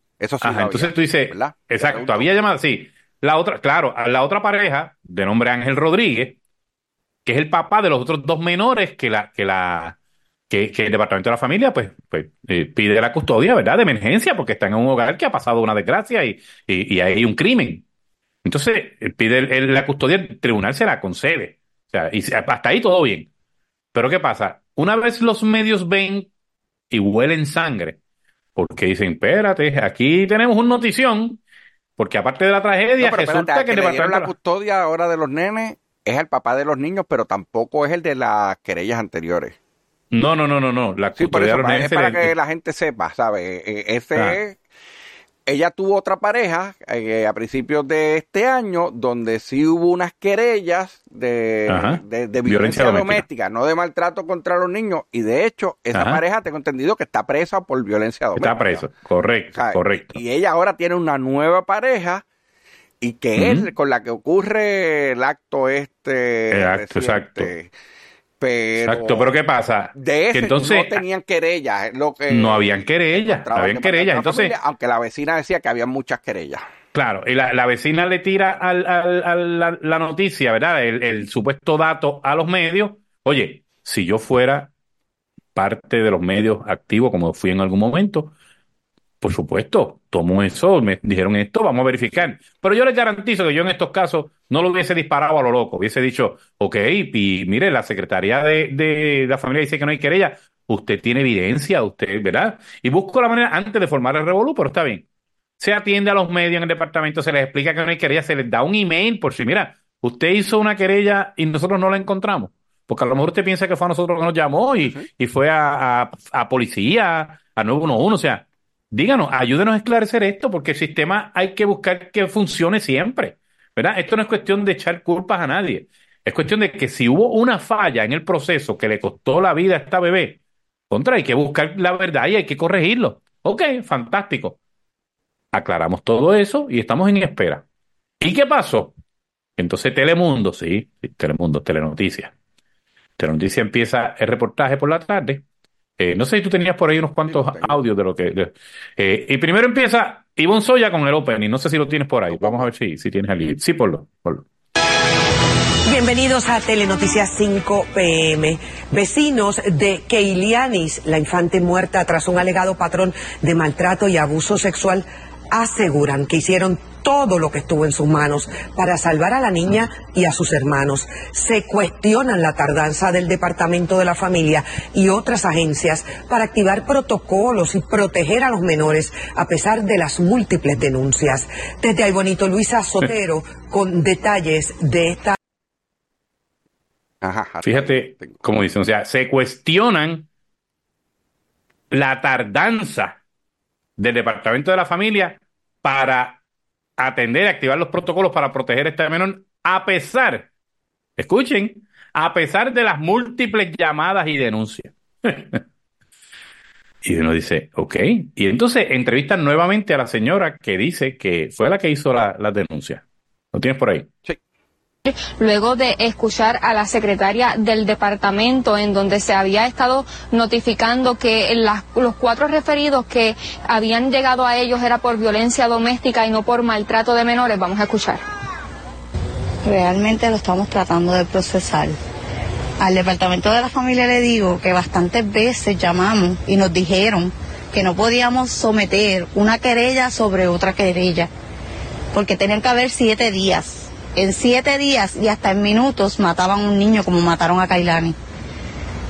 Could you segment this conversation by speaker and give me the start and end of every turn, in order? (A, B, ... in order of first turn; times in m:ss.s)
0:00.2-0:02.3 A
0:00.4-0:06.4 B
0:07.2-0:10.0 B
0:10.5-0:17.8 B
0:18.4-0:23.3 B
0:23.9-0:26.3 B
0:26.9-0:28.0 B
0:28.6-0:31.4 B
0:32.0-0:34.3 B
0:33.0-0:39.6 A
0:40.1-0:42.3 B
0:41.2-0:44.6 A
0:45.4-0:58.9 A
0:51.7-0:53.2 B
0:55.9-0:56.2 B
0:58.3-1:00.2 B
0:59.5-1:02.2 A
1:03.0-1:07.7 A
1:03.4-1:03.7 B
1:06.5-1:07.5 B
1:08.4-1:09.3 A
1:08.8-1:11.0 B
1:09.9-1:16.6 A
1:12.3-1:14.5 B
1:16.9-1:24.7 B
1:25.5-1:28.3 B
1:29.2-1:45.0 B
1:45.6-2:10.4 B
2:10.9-2:14.6 B
2:15.5-2:17.6 B
2:18.2-2:18.9 B
2:19.6-2:22.3 B
2:23.2-2:25.4 B
2:26.0-2:34.4 B
2:27.3-2:27.8 A
2:32.3-2:32.7 A
2:35.9-3:05.4 C
3:07.2-3:08.4 A
3:07.6-3:10.3 B
3:11.9-3:13.2 B
3:14.0-3:16.4 B
3:17.0-3:20.5 B
3:21.2-3:25.6 B
3:27.0-3:34.1 B
3:35.0-3:48.2 D
3:49.6-3:52.0 E
3:52.8-4:01.3 E
4:02.1-4:08.1 E